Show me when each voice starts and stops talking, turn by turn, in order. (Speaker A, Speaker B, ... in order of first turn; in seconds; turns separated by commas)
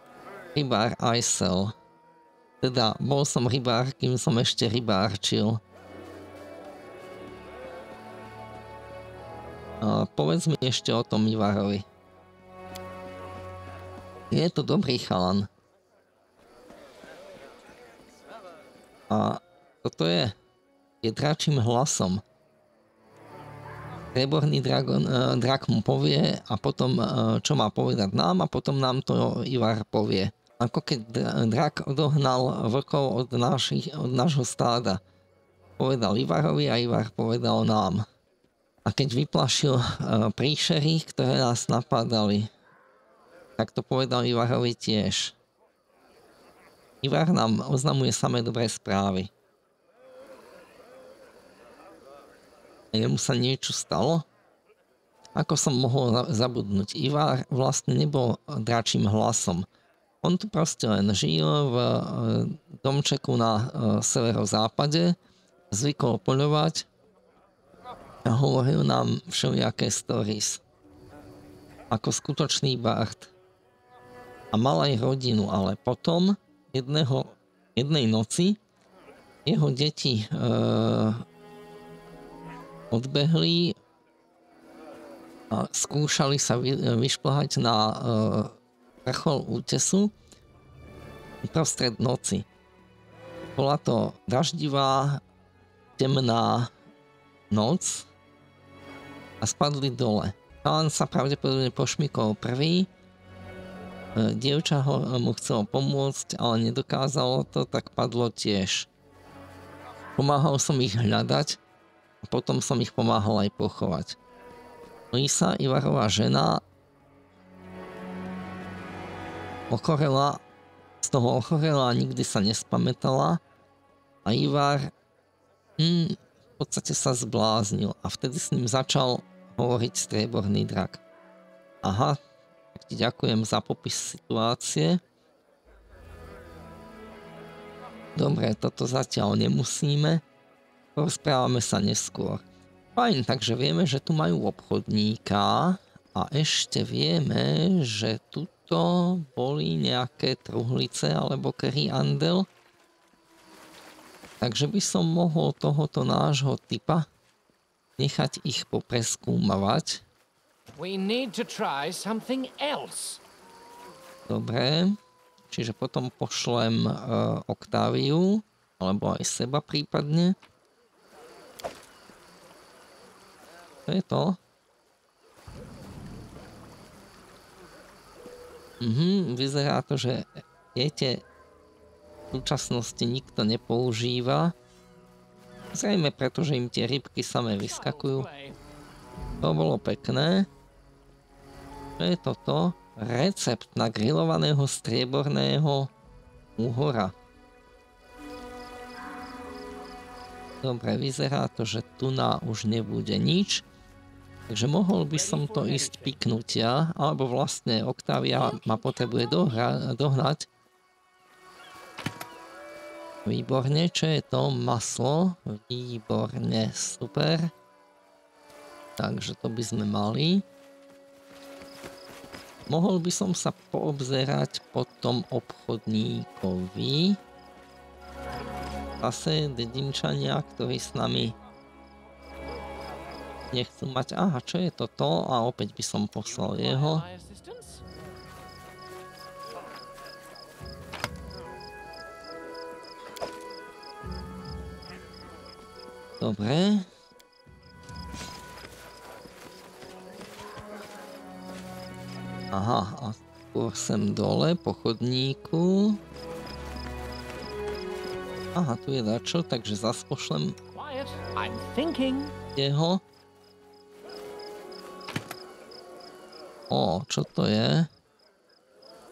Speaker A: 0.5-1.7, Speaker A: 2.6-5.6, Speaker A: 9.8-11.8, Speaker A: 14.3-15.5, Speaker A: 19.1-20.3, Speaker A: 21.0-22.2, Speaker A: 24.1-35.0, Speaker A: 35.8-38.0, Speaker A: 38.9-42.5, Speaker A: 43.6-45.4, Speaker A: 47.0-49.3, Speaker A: 52.9-54.2, Speaker A: 55.3-59.6, Speaker A: 60.2-65.2, Speaker A: 65.7-66.9, Speaker A: 68.2-70.6, Speaker A: 71.9-73.3, Speaker A: 74.5-78.6, Speaker A: 79.5-81.2, Speaker A: 82.9-83.8, Speaker A: 85.5-90.1, Speaker A: 91.4-92.5, Speaker A: 93.6-95.2, Speaker A: 96.0-96.7, Speaker A: 97.5-98.1, Speaker A: 99.4-102.9, Speaker A: 104.2-108.9, Speaker A: 110.2-111.6, Speaker A: 112.2-114.2, Speaker A: 115.1-116.6, Speaker A: 119.7-120.4, Speaker A: 121.0-123.4, Speaker A: 124.2-124.9, Speaker A: 125.8-131.0, Speaker A: 131.8-132.2, Speaker A: 132.7-135.0, Speaker A: 138.2-140.2, Speaker A: 140.9-142.4, Speaker A: 142.9-152.5, Speaker A: 154.4-157.1, Speaker A: 158.0-160.0, Speaker B: 160.8-163.2, Speaker A: 164.3-165.0, Speaker A: 165.5-170.3, Speaker A: 173.9-174.4, Speaker A: 178.8-181.2, Speaker A: 182.3-184.5, Speaker A: 185.7-188.3, Speaker B: 187.6-188.6, Speaker A: 189.4-190.5, Speaker A: 192.0-195.9, Speaker A: 196.6-197.1, Speaker A: 200.6-203.6, Speaker A: 204.5-210.5, Speaker B: 205.1-206.2, Speaker B: 208.3-209.1, Speaker A: 213.2-217.5, Speaker A: 219.0-220.4, Speaker A: 222.7-227.2, Speaker A: 229.0-231.3, Speaker A: 233.5-237.0, Speaker B: 236.2-237.8, Speaker A: 246.2-246.9, Speaker A: 252.5-256.0, Speaker A: 258.5-260.6, Speaker B: 260.7-262.3, Speaker A: 262.6-263.0, Speaker A: 266.7-267.9